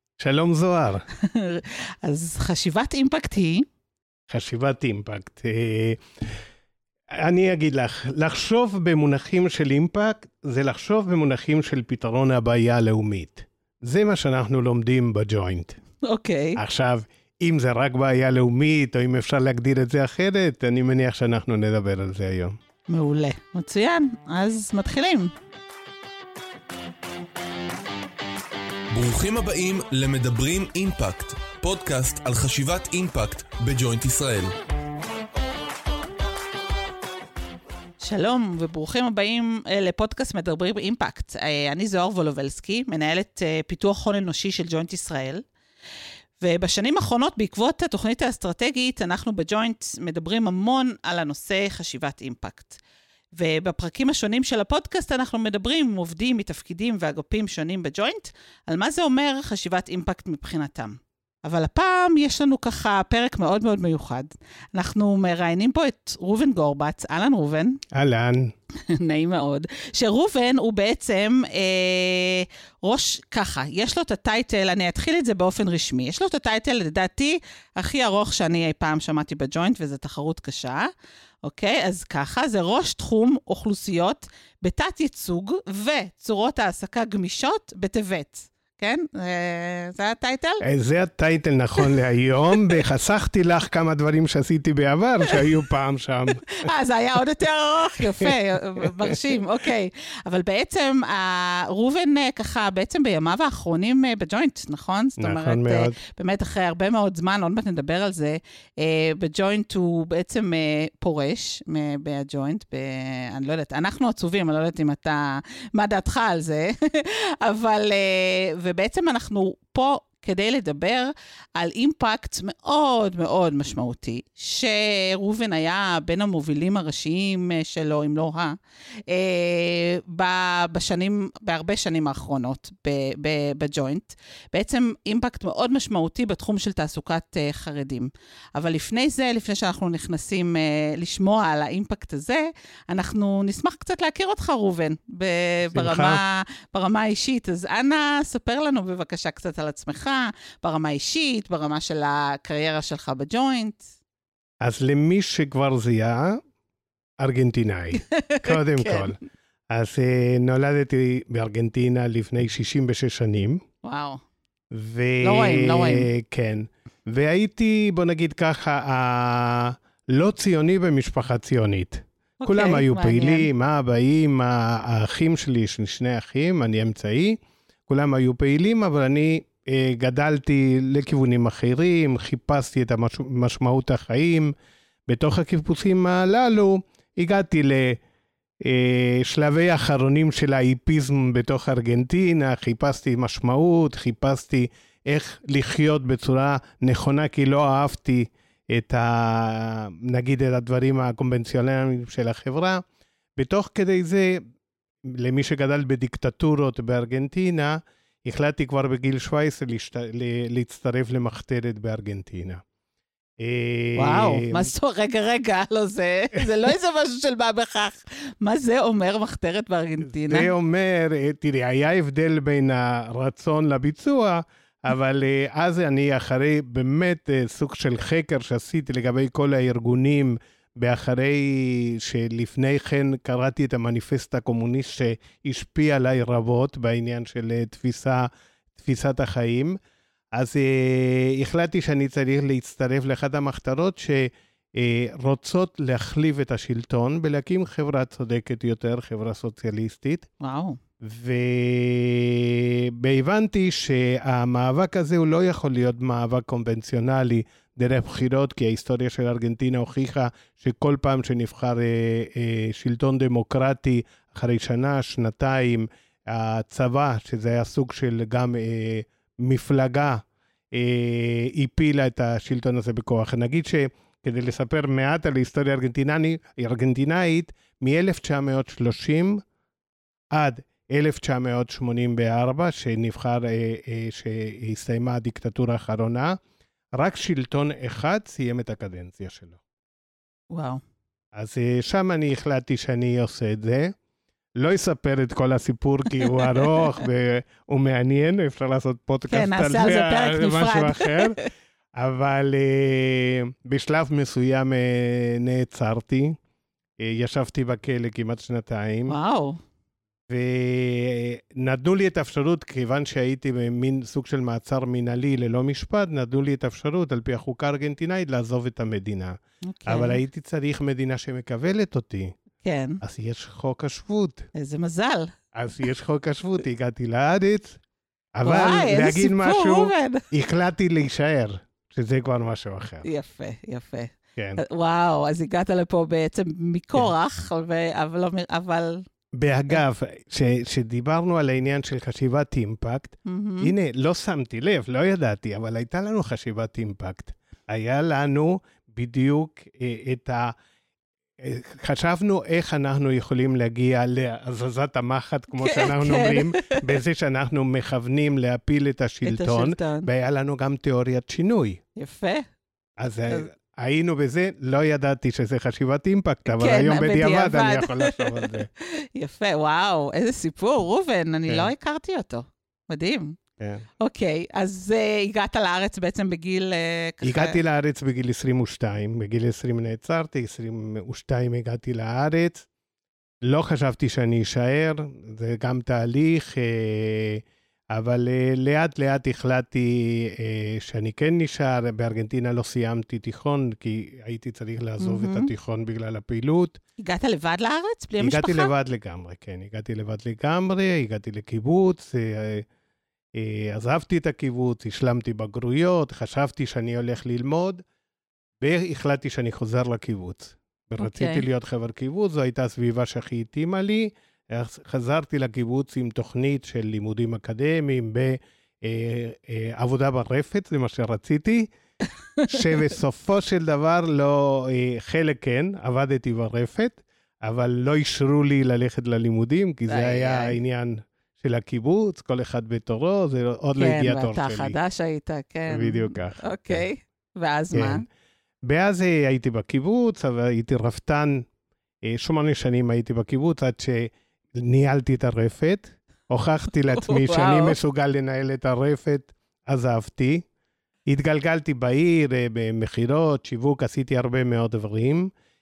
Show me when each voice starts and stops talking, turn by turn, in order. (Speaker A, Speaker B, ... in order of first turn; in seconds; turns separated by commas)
Speaker A: 0.2-1.1, Speaker B: 1.2-3.6, Speaker A: 4.3-6.4, Speaker A: 7.1-15.8, Speaker B: 16.0-16.6, Speaker A: 16.6-22.6, Speaker B: 22.9-25.3, Speaker C: 28.9-34.5, Speaker B: 38.0-45.5, Speaker B: 46.4-52.8, Speaker B: 53.4-67.8, Speaker A: 67.9-68.5, Speaker B: 68.9-80.9, Speaker B: 81.4-90.6, Speaker A: 90.6-96.7, Speaker B: 96.6-128.5, Speaker A: 98.2-98.8, Speaker A: 105.2-106.0, Speaker B: 129.1-153.9, Speaker A: 145.7-146.2, Speaker A: 154.6-156.4, Speaker A: 157.2-159.2, Speaker B: 158.0-159.1, Speaker A: 159.7-163.6, Speaker B: 163.8-164.2, Speaker A: 164.7-184.5, Speaker B: 165.2-166.1, Speaker B: 172.4-173.5, Speaker A: 185.1-188.0, Speaker A: 188.6-202.8, Speaker A: 203.4-204.4, Speaker A: 205.1-212.6, Speaker A: 213.4-214.7, Speaker B: 214.0-220.5, Speaker A: 220.0-239.8, Speaker A: 240.3-250.3, Speaker B: 250.4-250.8, Speaker A: 251.0-279.4, Speaker A: 280.3-286.4, Speaker A: 286.9-289.6, Speaker B: 290.5-290.8, Speaker A: 291.3-294.0, Speaker A: 294.6-301.4, Speaker B: 296.2-296.9, Speaker B: 299.3-301.5, Speaker A: 301.9-306.4, Speaker A: 307.0-309.1, Speaker B: 309.1-309.6, Speaker A: 310.3-322.3, Speaker B: 319.7-320.2, Speaker B: 322.6-323.0, Speaker A: 323.0-324.5, Speaker B: 324.6-325.3, Speaker A: 325.5-327.8, Speaker A: 328.4-333.1, Speaker B: 328.4-330.2, Speaker B: 333.0-339.0, Speaker A: 339.4-350.5, Speaker B: 343.3-343.7, Speaker A: 351.4-361.8, Speaker B: 355.6-357.0, Speaker B: 359.2-360.1, Speaker B: 362.0-362.4, Speaker A: 363.0-368.7, Speaker B: 366.5-373.4, Speaker A: 373.6-373.9, Speaker B: 374.0-377.6, Speaker A: 377.2-382.7, Speaker A: 383.4-396.8, Speaker B: 395.0-395.5, Speaker B: 397.0-398.7, Speaker A: 398.2-402.7, Speaker A: 403.3-407.8, Speaker A: 408.6-421.7, Speaker B: 411.0-411.4, Speaker A: 422.5-434.8, Speaker B: 429.9-430.6, Speaker B: 433.8-438.1, Speaker A: 435.7-436.9, Speaker A: 437.7-438.0, Speaker A: 438.6-441.5, Speaker A: 442.1-450.4, Speaker B: 446.9-447.8, Speaker A: 451.1-455.3